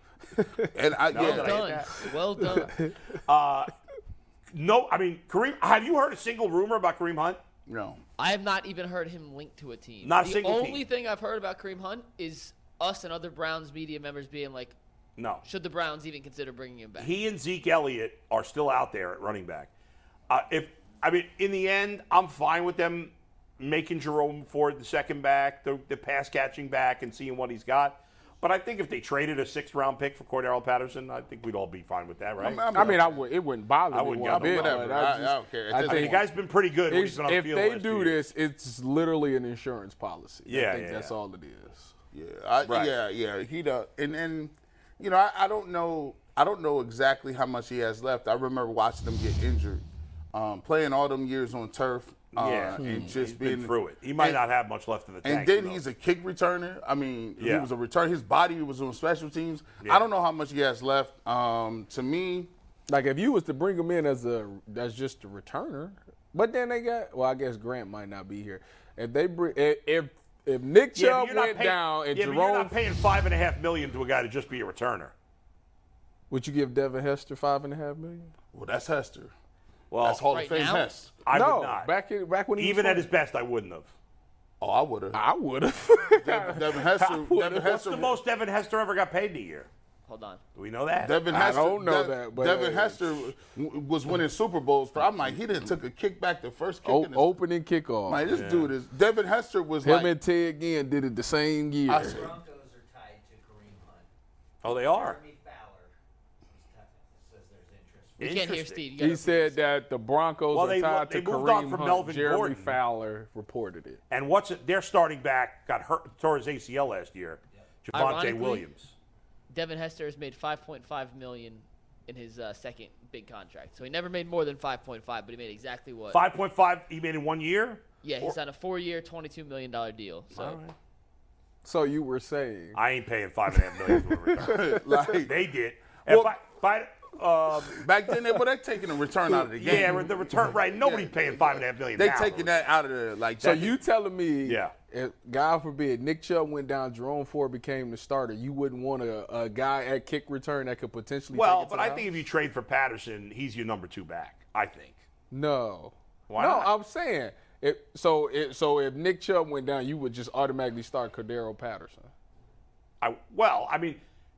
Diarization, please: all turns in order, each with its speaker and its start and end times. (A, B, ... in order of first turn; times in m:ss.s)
0:00.4-0:00.7 A
0:00.7-0:01.9 B
0:01.1-0:02.1 C
0:01.2-0:02.8 D
0:03.2-0:03.7 C
0:04.5-0:07.4 C
0:07.7-0:08.0 B
0:08.2-0:14.8 D
0:10.0-0:10.8 C
0:15.2-0:15.4 C
0:15.4-0:17.1 D
0:17.0-0:19.7 C
0:20.3-0:32.6 C
0:32.4-0:33.2 B
0:32.7-0:36.2 A
0:33.9-0:34.9 C
0:34.3-0:36.2 B
0:35.8-0:38.3 C
0:36.9-0:41.9 A
0:40.5-0:41.1 C
0:42.1-0:54.4 B
0:42.6-0:42.9 C
0:52.4-0:55.8 C
0:52.8-0:53.1 A
0:55.2-1:02.5 B
0:57.4-0:57.7 C
1:02.9-1:12.8 A
1:11.0-1:15.1 C
1:16.3-1:18.3 A
1:18.5-1:19.3 B
1:19.9-1:20.3 C
1:20.0-1:21.1 B
1:20.3-1:20.9 D
1:21.2-1:21.9 C
1:21.3-1:23.1 A
1:22.6-1:23.9 C
1:24.6-1:25.2 B
1:25.1-1:27.9 A
1:26.1-1:28.2 B
1:27.5-1:29.7 C
1:30.1-1:30.4 D
1:30.6-1:31.2 C
1:31.0-1:37.4 B
1:31.3-1:33.3 A
1:36.8-1:38.2 A
1:38.1-1:40.1 B
1:38.3-1:38.7 C
1:39.8-1:42.3 A
1:41.9-1:42.4 B
1:42.0-1:44.1 E
1:44.6-1:45.2 C
1:44.7-1:45.9 E
1:46.5-1:48.4 E
1:48.2-1:48.8 C
1:48.2-1:49.6 D
1:49.0-1:54.0 A
1:50.5-1:52.8 C
1:54.1-1:58.9 C
1:57.9-1:58.6 D
1:59.5-2:06.2 D
2:06.1-2:08.4 C
2:08.0-2:10.6 D
2:10.3-2:10.8 C
2:11.6-2:12.8 A
2:12.8-2:14.7 C
2:13.7-2:14.8 A
2:14.4-2:15.4 B
2:15.2-2:17.8 C
2:16.1-2:16.3 B
2:17.8-2:23.7 B
2:19.6-2:22.7 C
2:19.6-2:20.0 A
2:23.4-2:32.1 A
2:24.4-2:24.7 C
2:31.3-2:35.0 C
2:35.3-2:42.1 A
2:36.3-2:36.7 C
2:43.0-2:44.0 C